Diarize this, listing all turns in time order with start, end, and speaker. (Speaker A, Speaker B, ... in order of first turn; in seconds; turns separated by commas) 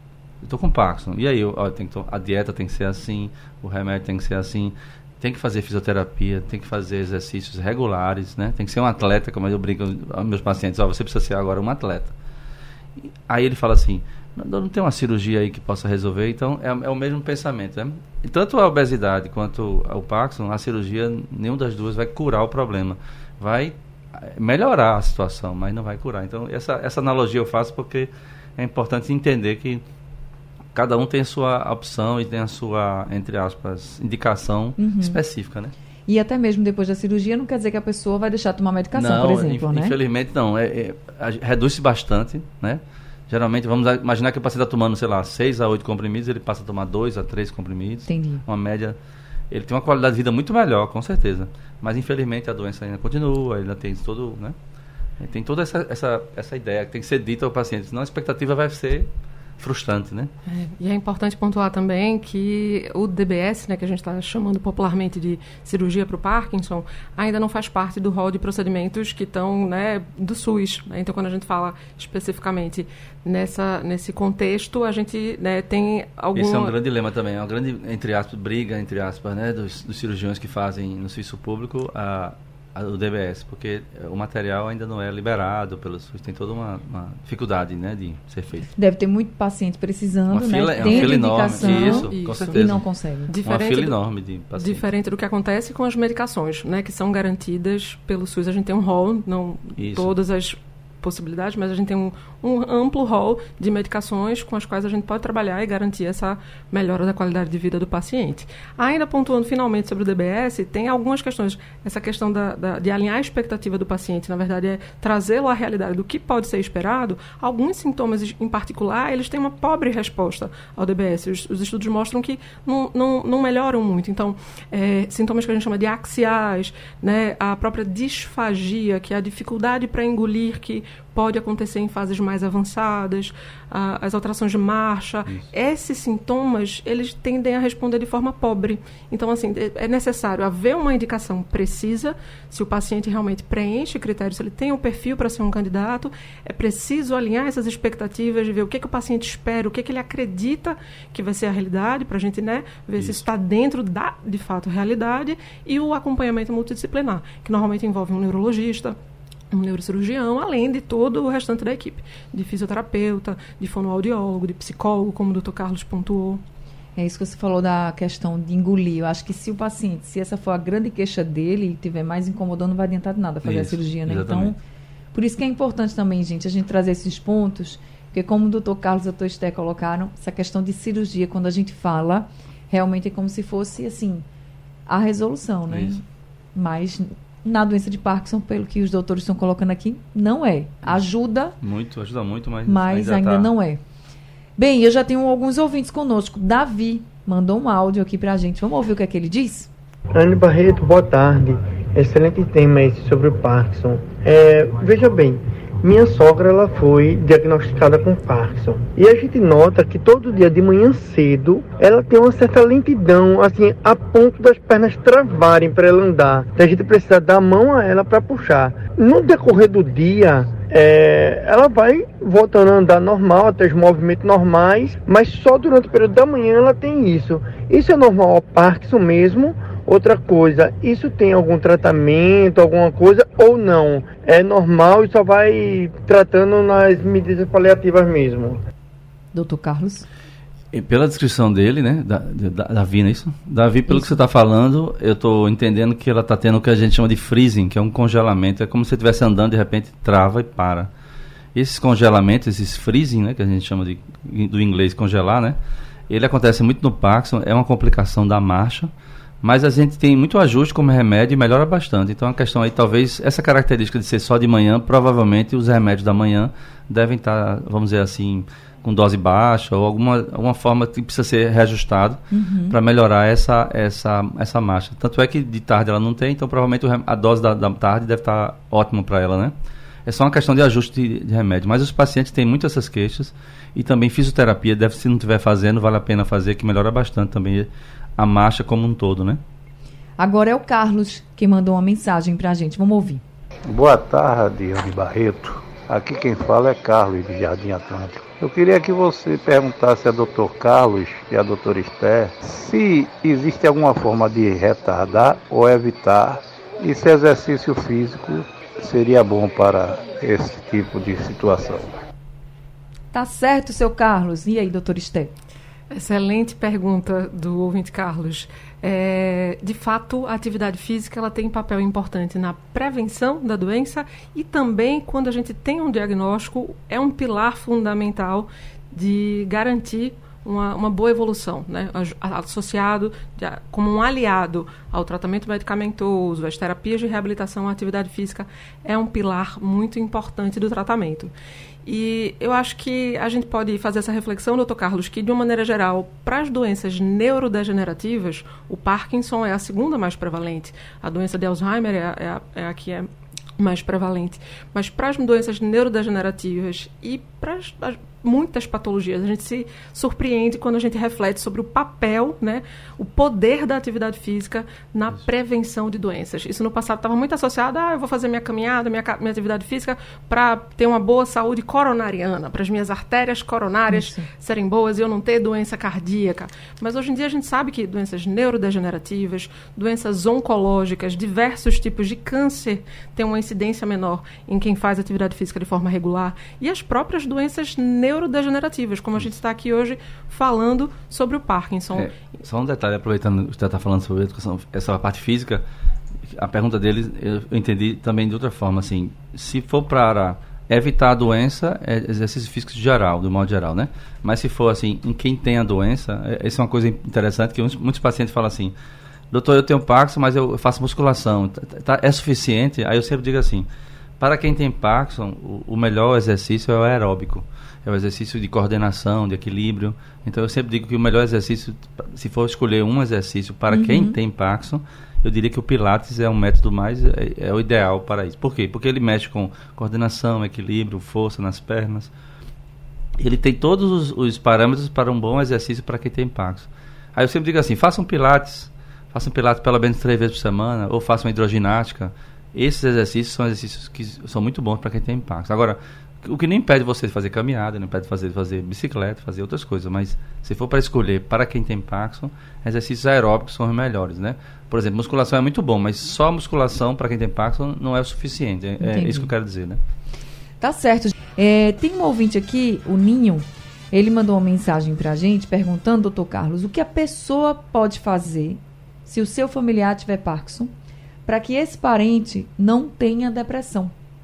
Speaker A: 0.4-12.1, Speaker A: 13.3-29.8, Speaker A: 30.7-35.7, Speaker B: 34.8-35.2, Speaker B: 36.1-39.9, Speaker A: 38.9-49.0, Speaker B: 48.1-48.4, Speaker A: 49.5-54.5, Speaker A: 55.2-60.3, Speaker C: 60.5-76.7, Speaker A: 76.3-88.7, Speaker B: 88.8-93.3, Speaker A: 90.3-92.8, Speaker C: 90.8-94.0, Speaker A: 93.4-94.9, Speaker C: 94.5-159.0, Speaker A: 99.8-100.1, Speaker C: 159.5-166.4, Speaker B: 166.9-174.6, Speaker A: 173.4-174.5, Speaker B: 175.1-184.2, Speaker B: 184.9-186.0, Speaker A: 185.7-185.9, Speaker B: 186.5-191.6, Speaker A: 191.6-193.5, Speaker B: 192.7-193.8, Speaker B: 194.6-199.7, Speaker D: 200.1-238.6, Speaker B: 239.3-240.1, Speaker A: 240.7-250.9, Speaker B: 243.9-244.2, Speaker A: 251.5-255.6, Speaker A: 256.1-258.9, Speaker A: 259.4-279.5, Speaker B: 272.3-272.8, Speaker A: 280.1-289.4, Speaker B: 290.2-293.2, Speaker E: 293.7-312.0, Speaker B: 313.1-315.3, Speaker C: 315.9-341.3, Speaker C: 341.8-392.1, Speaker B: 373.9-374.3, Speaker A: 391.9-395.6, Speaker A: 396.3-408.7, Speaker A: 409.3-413.6, Speaker A: 414.2-432.1, Speaker B: 423.7-424.1, Speaker A: 433.2-459.8, Speaker B: 458.8-459.3, Speaker B: 460.6-470.7, Speaker B: 471.2-473.9